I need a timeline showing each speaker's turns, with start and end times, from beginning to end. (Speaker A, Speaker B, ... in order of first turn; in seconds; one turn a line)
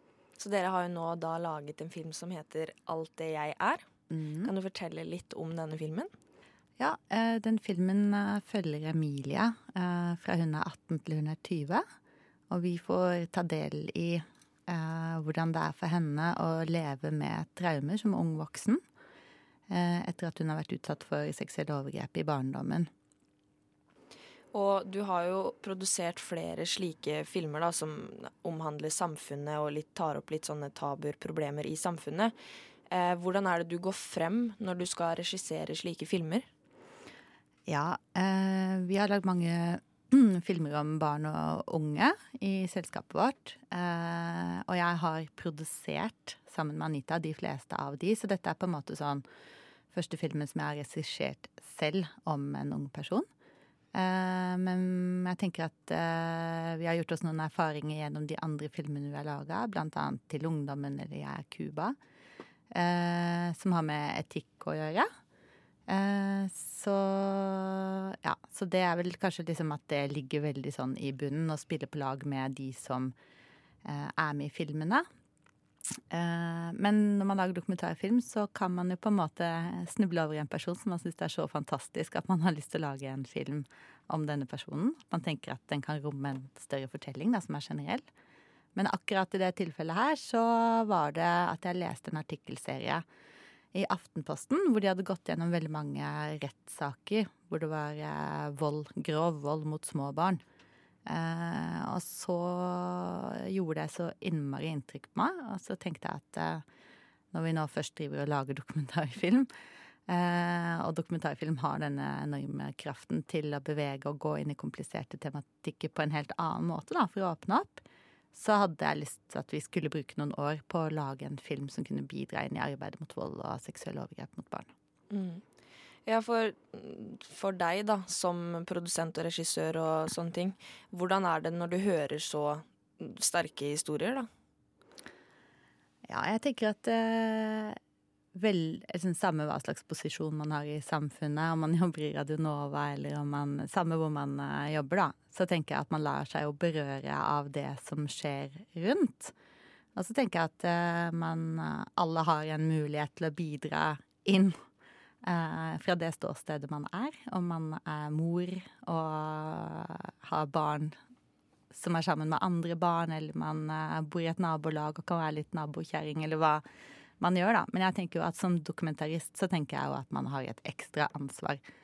Speaker A: 0.4-3.9
Speaker B: 4.1-4.5
Speaker A: 4.4-6.1
Speaker B: 6.8-11.8
Speaker B: 12.5-18.8
Speaker B: 19.7-22.9
Speaker A: 24.5-32.3
Speaker A: 32.9-36.5
Speaker B: 37.7-49.2
Speaker B: 49.9-53.3
Speaker B: 53.9-62.0
Speaker B: 62.7-65.1
Speaker B: 65.9-73.1
Speaker B: 73.8-75.1
Speaker B: 76.1-88.0
Speaker B: 88.8-93.0
Speaker B: 93.7-100.4
Speaker B: 101.1-106.6
Speaker B: 107.3-109.5
Speaker B: 110.1-124.7
Speaker A: 125.1-125.4
Speaker A: 126.1-134.3
Speaker B: 136.1-137.8
Speaker B: 138.3-149.3
Speaker B: 150.0-154.6
Speaker B: 155.2-160.9
Speaker B: 161.7-166.6
Speaker B: 167.2-171.6